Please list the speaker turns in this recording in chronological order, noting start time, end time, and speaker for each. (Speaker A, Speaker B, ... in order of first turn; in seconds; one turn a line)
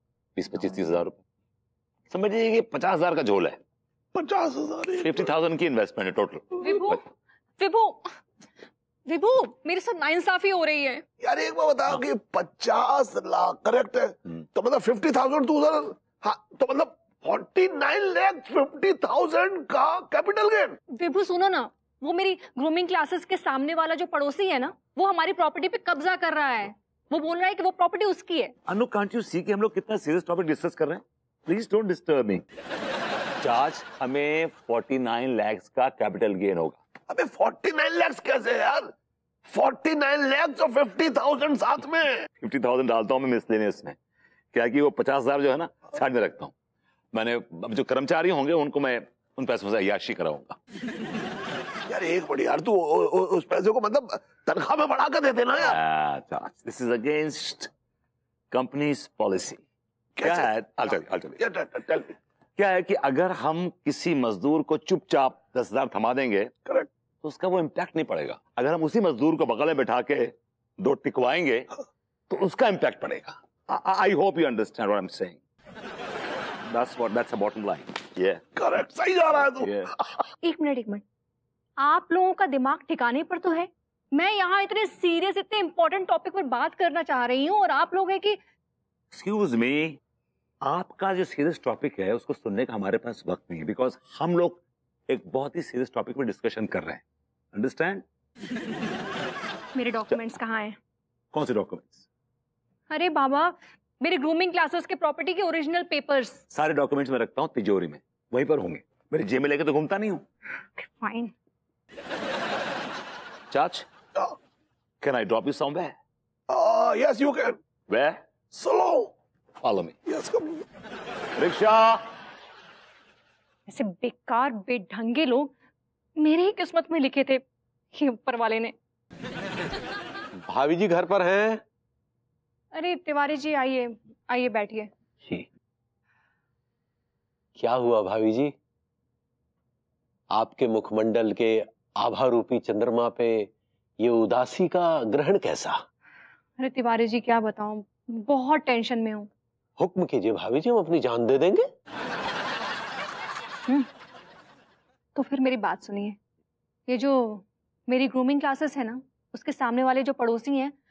Speaker A: 0.4-1.2
Speaker A: 2.1-3.6
Speaker B: 4.1-5.3
Speaker A: 5.0-7.0
Speaker C: 6.6-7.0
Speaker C: 7.6-8.1
Speaker C: 9.1-11.0
Speaker B: 11.2-20.8
Speaker C: 20.9-28.5
Speaker A: 28.7-32.4
Speaker A: 33.4-36.8
Speaker B: 37.1-38.9
Speaker B: 39.5-42.2
Speaker A: 42.4-44.0
Speaker A: 44.5-46.5
Speaker A: 47.1-50.6
Speaker B: 51.9-55.8
Speaker A: 55.6-57.7
Speaker A: 58.5-59.6
Speaker B: 60.2-62.1
Speaker A: 60.2-61.4
Speaker A: 62.6-66.5
Speaker A: 67.2-71.7
Speaker A: 72.3-75.4
Speaker A: 76.7-78.4
Speaker B: 78.6-80.2
Speaker A: 79.3-79.9
Speaker C: 80.4-81.0
Speaker C: 81.8-88.4
Speaker A: 89.1-90.0
Speaker A: 90.6-97.0
Speaker A: 97.5-98.0
Speaker C: 99.8-100.8
Speaker A: 101.3-102.0
Speaker C: 102.9-106.4
Speaker A: 106.5-110.2
Speaker C: 110.8-111.3
Speaker A: 113.5-113.9
Speaker A: 115.0-116.0
Speaker B: 116.5-117.6
Speaker A: 117.9-118.2
Speaker B: 118.5-119.1
Speaker A: 119.6-120.0
Speaker B: 120.1-120.6
Speaker A: 121.4-122.0
Speaker C: 123.7-125.5
Speaker C: 126.2-128.7
Speaker D: 130.4-131.6
Speaker C: 132.7-134.9
Speaker D: 137.6-138.5
Speaker D: 140.3-143.5
Speaker D: 144.0-145.8
Speaker C: 146.6-149.3
Speaker D: 149.8-151.7
Speaker C: 155.2-156.2
Speaker C: 156.9-160.7